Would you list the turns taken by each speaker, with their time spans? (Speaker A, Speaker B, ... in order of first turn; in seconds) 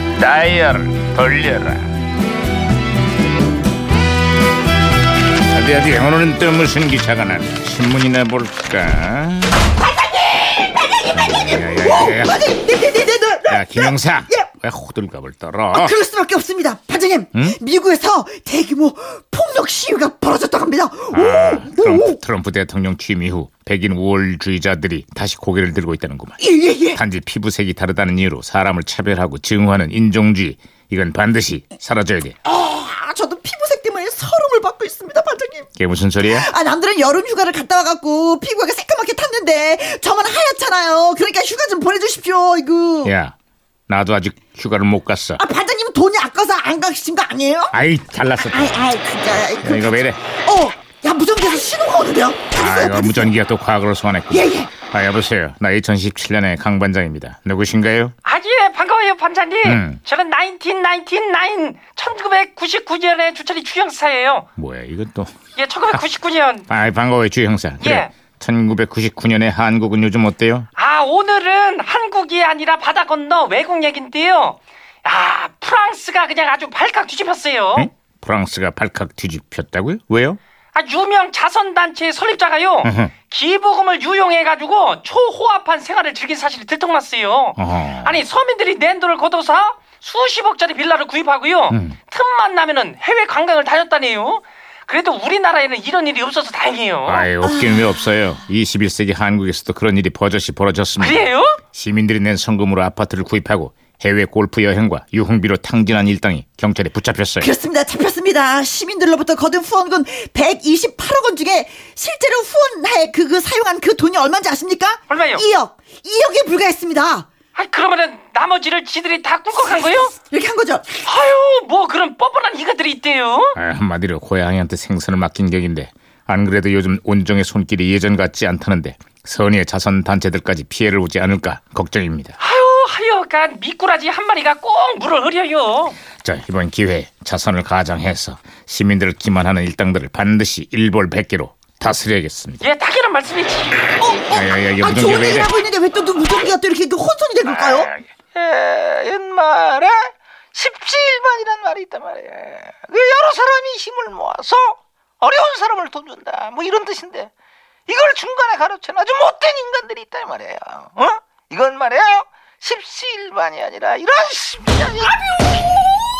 Speaker A: 0.1-1.9, 5.5-9.7, 11.1-12.4, 13.5-16.0, 21.1-26.4, 26.9-32.4, 35.8-36.5, 43.0-43.3, 43.9-45.4, 47.7-48.8, 49.6-50.2, 52.5-58.1, 59.6-60.0, 64.5-65.3, 66.7-70.7, 77.8-80.4, 82.8-83.1, 87.6-88.2, 91.7-92.0, 97.0-107.5, 123.5-132.4, 136.2-142.7, 144.2-145.5, 147.7-148.1, 158.8-159.1
Speaker B: 9.8-14.5, 15.7-22.2, 26.4-27.0, 32.5-35.7, 36.2-43.1, 45.4-47.8, 48.4-53.3, 54.3-54.7, 107.4-117.2, 120.1-121.1, 144.0-147.9
Speaker C: 58.2-64.5, 65.5-66.7, 67.8-68.1, 70.8-77.9, 80.7-97.2, 101.0-101.6, 115.1-115.5, 117.5-120.1, 121.0-123.6, 132.4-136.0, 142.6-144.0
Speaker D: 148.3-157.3, 157.9-165.1